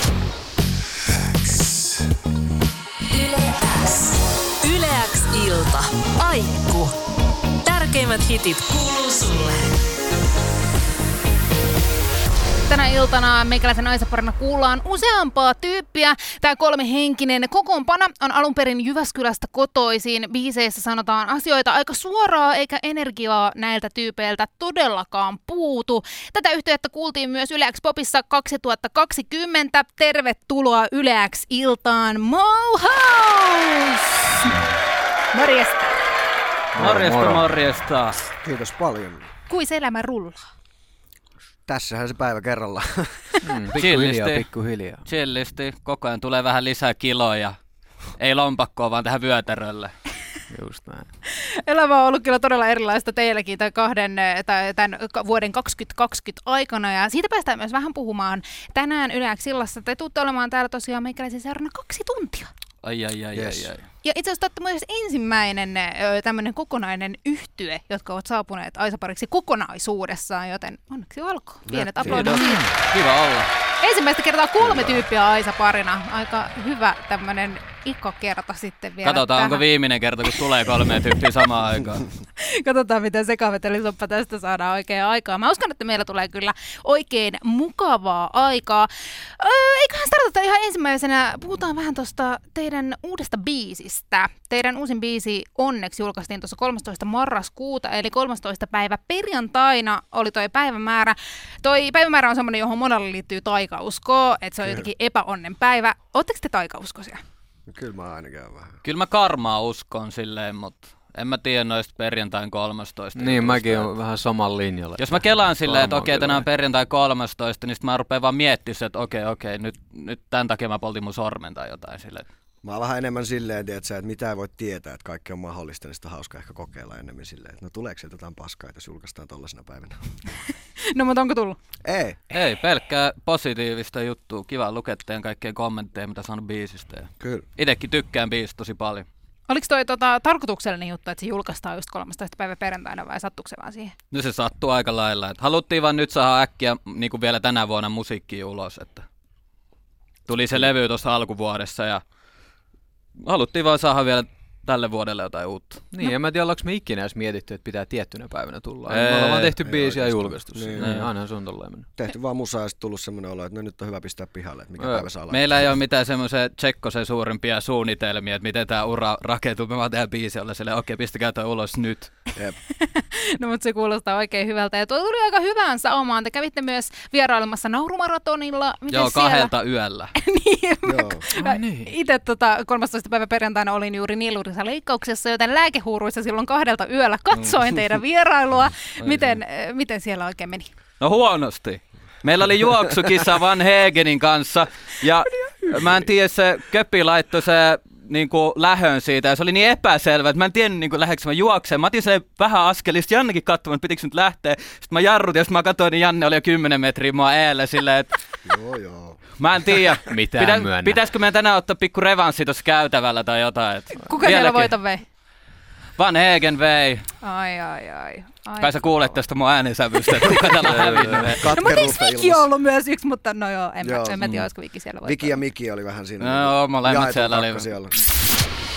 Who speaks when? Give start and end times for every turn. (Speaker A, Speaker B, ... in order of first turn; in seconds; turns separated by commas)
Speaker A: 3.1-6.9, Speaker A: 7.7-9.7, Speaker B: 12.7-34.6, Speaker B: 35.3-36.0, Speaker C: 36.7-37.4, Speaker D: 36.8-38.2, Speaker E: 38.4-39.3, Speaker B: 39.5-40.4, Speaker E: 41.7-43.5, Speaker C: 43.4-45.0, Speaker D: 43.7-44.5, Speaker D: 45.0-47.6, Speaker D: 48.2-49.9, Speaker C: 50.5-51.1, Speaker B: 51.3-62.5, Speaker D: 62.8-63.8, Speaker E: 63.3-63.7, Speaker B: 64.0-72.7, Speaker E: 71.7-72.4, Speaker D: 72.0-73.5, Speaker B: 73.8-79.6, Speaker E: 74.6-75.0, Speaker D: 79.0-82.1, Speaker B: 82.4-107.2, Speaker E: 107.7-108.8, Speaker D: 108.8-113.9, Speaker C: 113.2-116.5, Speaker D: 115.0-122.2, Speaker E: 122.6-130.0, Speaker B: 130.9-131.6, Speaker E: 131.8-132.2, Speaker D: 132.3-139.1, Speaker B: 139.5-143.9, Speaker D: 144.1-149.1, Speaker D: 150.3-152.0, Speaker D: 153.2-155.8, Speaker C: 155.9-161.9, Speaker D: 158.9-159.5, Speaker E: 159.6-160.9, Speaker D: 160.8-161.1, Speaker E: 162.0-165.7, Speaker C: 164.8-165.1, Speaker D: 165.3-172.1, Speaker B: 172.7-179.5, Speaker D: 178.9-180.1, Speaker B: 180.2-190.7, Speaker E: 180.8-181.2, Speaker C: 181.3-181.9, Speaker D: 189.0-189.4, Speaker D: 191.0-208.1, Speaker E: 208.4-209.2, Speaker D: 209.4-214.7, Speaker C: 210.1-211.0, Speaker B: 213.9-215.0, Speaker D: 216.0-217.1, Speaker B: 217.2-219.2, Speaker D: 218.6-221.4, Speaker E: 220.3-222.5, Speaker B: 221.5-225.4, Speaker E: 223.8-224.2, Speaker D: 224.2-224.5, Speaker E: 225.0-227.9, Speaker D: 226.2-227.7